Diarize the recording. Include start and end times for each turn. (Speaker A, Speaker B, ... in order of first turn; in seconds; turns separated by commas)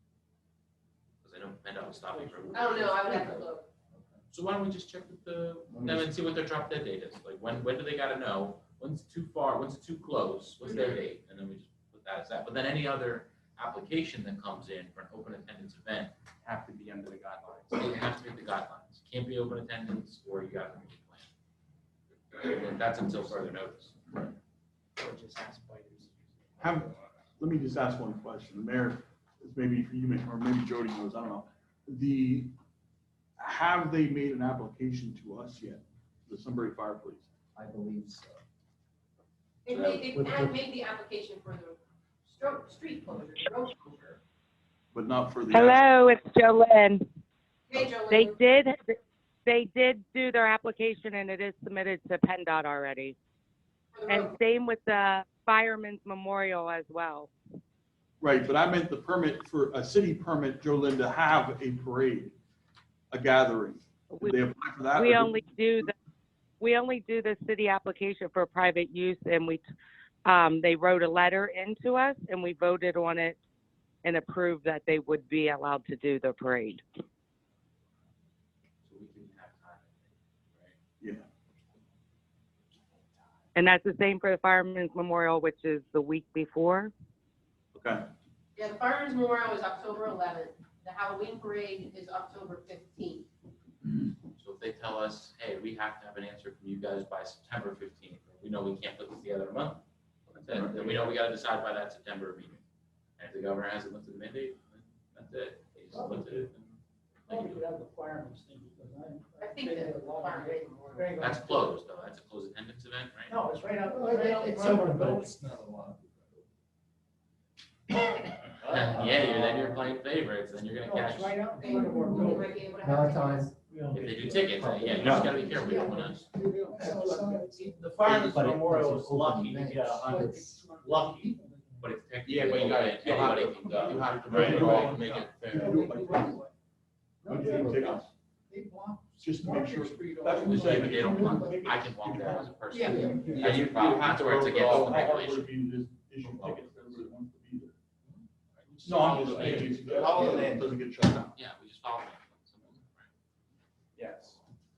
Speaker A: 1.2-3.5, Speaker B: 2.5-3.7, Speaker A: 4.3-16.1, Speaker C: 5.7-6.1, Speaker D: 16.4-18.1, Speaker A: 17.7-21.3, Speaker A: 22.4-23.9, Speaker D: 25.0-26.9, Speaker E: 26.6-32.5, Speaker E: 33.4-37.3, Speaker C: 37.5-38.4, Speaker B: 39.6-44.2, Speaker C: 40.1-40.6, Speaker E: 44.9-45.8, Speaker F: 45.5-47.0, Speaker B: 47.7-48.4, Speaker F: 47.8-53.2, Speaker B: 53.9-54.3, Speaker F: 54.1-57.3, Speaker E: 58.2-62.4, Speaker E: 63.1-65.4, Speaker F: 64.1-65.9, Speaker F: 66.6-69.6, Speaker F: 70.3-73.4, Speaker F: 74.0-76.8, Speaker A: 78.8-80.8, Speaker E: 81.0-81.3, Speaker F: 83.5-86.9, Speaker E: 87.8-88.0, Speaker B: 88.6-93.3, Speaker A: 94.3-99.8, Speaker A: 100.4-102.6, Speaker A: 103.2-107.6, Speaker G: 107.3-111.7, Speaker B: 109.4-111.1, Speaker A: 111.2-113.4, Speaker G: 113.3-115.2, Speaker C: 113.9-116.0, Speaker A: 118.6-121.4, Speaker C: 118.8-119.8, Speaker G: 120.8-122.5, Speaker B: 121.6-123.5, Speaker C: 122.0-123.5, Speaker G: 123.7-124.4, Speaker A: 123.9-126.2, Speaker C: 124.2-130.7, Speaker D: 125.0-125.3, Speaker G: 125.4-127.7, Speaker B: 125.6-125.9, Speaker D: 126.8-130.3, Speaker G: 130.1-131.8, Speaker D: 130.8-131.3, Speaker A: 131.8-135.3, Speaker D: 132.2-136.1, Speaker E: 133.8-136.4, Speaker G: 134.4-134.9, Speaker G: 135.5-136.5, Speaker C: 137.2-138.1, Speaker G: 137.2-137.8, Speaker E: 137.3-138.1, Speaker G: 138.5-141.9, Speaker E: 139.2-147.7, Speaker A: 140.4-145.5, Speaker B: 142.7-143.0, Speaker C: 142.8-143.3, Speaker D: 143.3-145.3, Speaker A: 146.2-146.7, Speaker D: 148.7-151.3, Speaker E: 148.8-151.3, Speaker A: 149.3-149.6, Speaker A: 151.3-153.1, Speaker D: 154.0-154.3